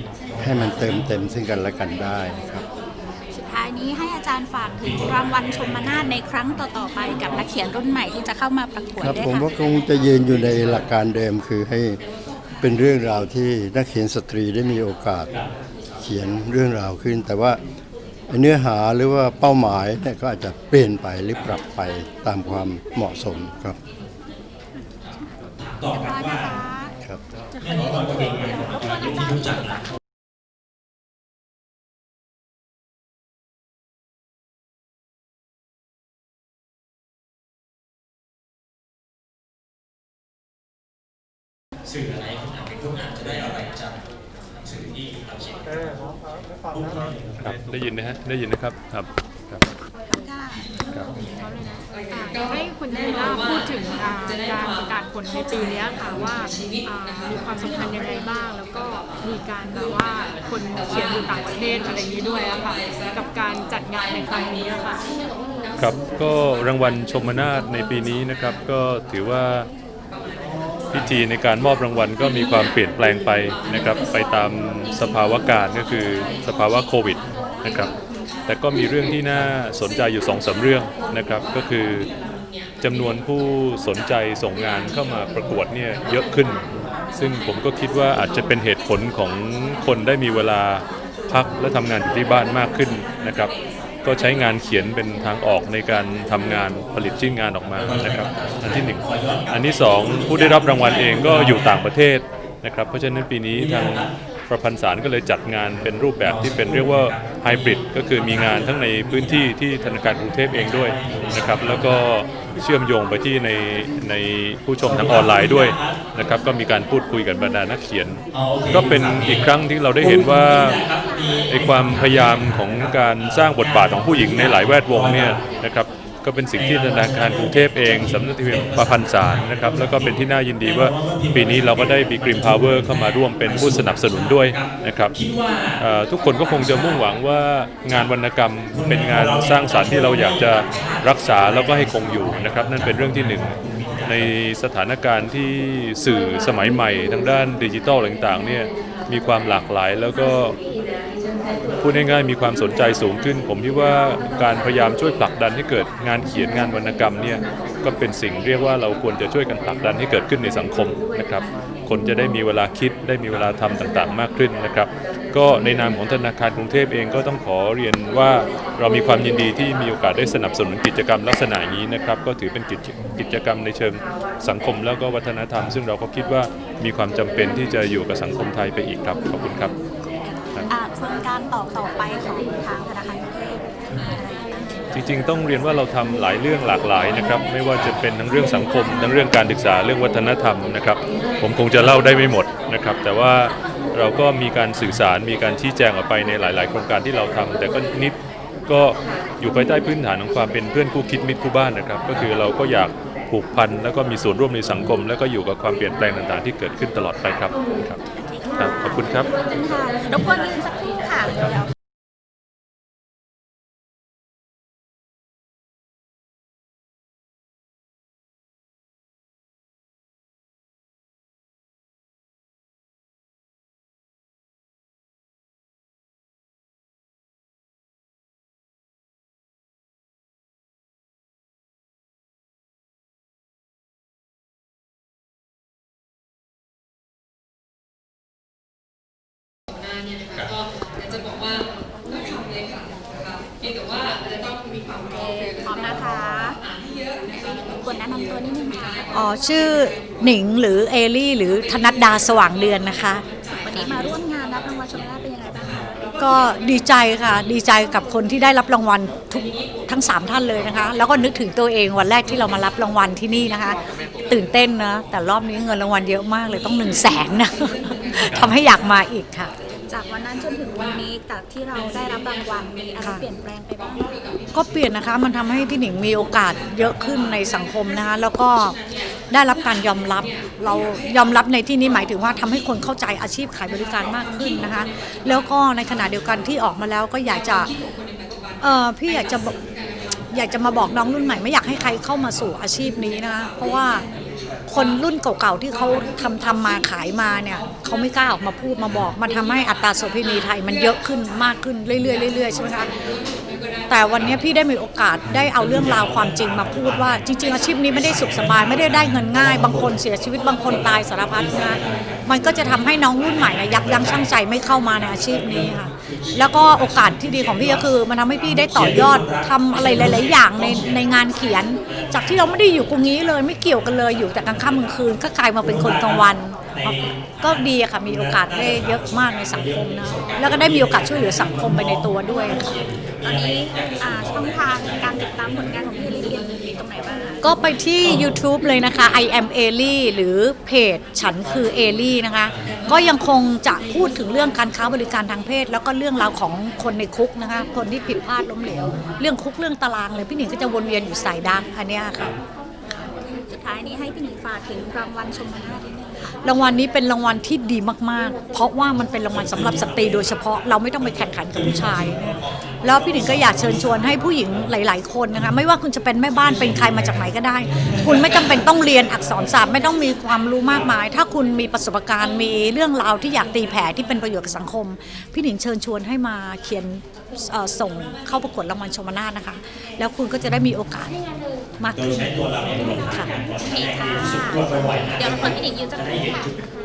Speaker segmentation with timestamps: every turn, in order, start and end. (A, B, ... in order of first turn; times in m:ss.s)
0:00.4-0:02.6 A
0:03.3-0:09.4 B
0:09.0-0:12.0 A
0:12.6-0:15.3 A
0:16.0-0:17.6 A
0:18.3-0:23.8 A
0:25.9-0:26.9 B
0:28.2-0:29.6 B
0:47.4-0:49.6 C
0:50.1-0:50.8 B
0:51.4-1:05.0 D
1:05.8-1:09.7 C
1:10.9-1:17.9 C
1:18.5-1:22.1 C
1:22.8-1:33.5 C
1:34.0-2:00.8 C
2:01.5-2:15.2 C
2:15.8-2:30.6 C
2:31.8-2:59.7 C
3:00.7-3:04.5 B
3:04.9-3:28.0 C
3:28.2-3:31.5 B
3:28.6-3:29.3 C
4:05.1-4:06.6 B
4:07.7-4:09.1 B
4:09.1-4:13.2 E
4:13.6-4:15.8 B
4:16.2-4:29.5 E
4:29.9-4:34.1 B
4:34.5-4:38.8 E
4:39.3-4:47.7 E
4:48.6-4:49.6 E
4:50.3-4:54.0 E
4:54.7-5:02.9 E
5:03.9-5:32.7 E
5:33.2-5:37.4 B
5:37.4-5:52.4 E
5:53.2-5:56.4 B
5:56.4-6:21.2 E
6:21.8-6:23.3 E
6:23.5-6:26.5 B